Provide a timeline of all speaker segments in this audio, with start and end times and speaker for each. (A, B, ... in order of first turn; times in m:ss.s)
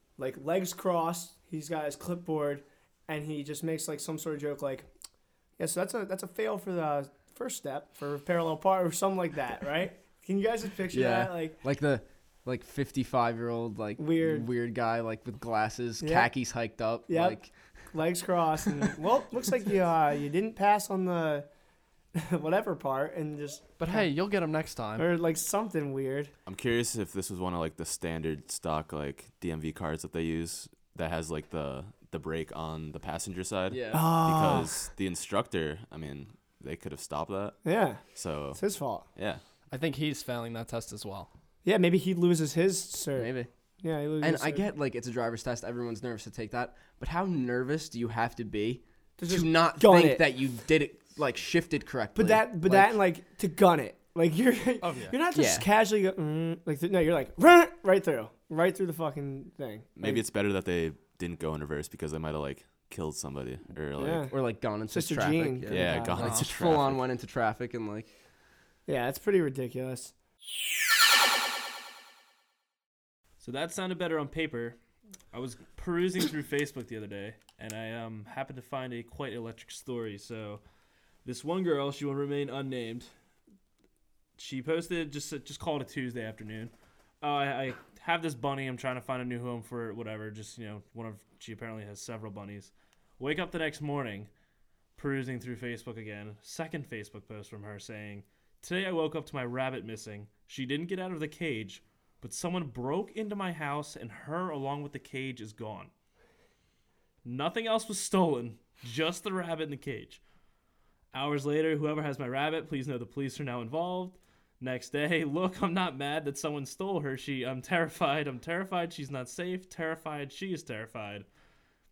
0:00.2-0:04.9 A
0:05.6-0:11.6 A
0:10.9-0:17.5 B
0:14.0-0:14.5 A
0:16.0-0:16.3 A
0:17.1-0:17.4 A
0:17.9-0:21.5 A
0:22.2-0:24.1 A
0:23.8-0:25.1 C
0:25.0-0:26.3 A
0:26.5-0:37.6 D
0:33.7-0:34.2 B
0:33.9-0:34.8 A
0:37.6-0:39.1 A
0:38.1-0:38.6 D
0:39.2-0:39.4 D
0:39.7-0:41.3 C
0:41.6-0:43.3 A
0:43.2-0:43.5 B
0:43.8-0:44.7 A
0:44.2-0:53.0 B
0:49.2-0:50.4 A
0:52.2-1:00.2 A
0:54.8-0:55.2 C
0:55.3-0:55.7 B
1:00.0-1:04.3 D
1:04.0-1:04.3 A
1:04.2-1:08.1 B
1:04.9-1:06.3 A
1:05.7-1:07.0 D
1:06.2-1:06.5 C
1:08.9-1:10.1 A
1:13.4-1:14.8 E
1:15.3-1:20.6 E
1:21.2-1:23.1 E
1:24.4-1:34.3 E
1:35.0-1:45.9 E
1:47.2-1:50.2 E
1:51.1-2:01.3 E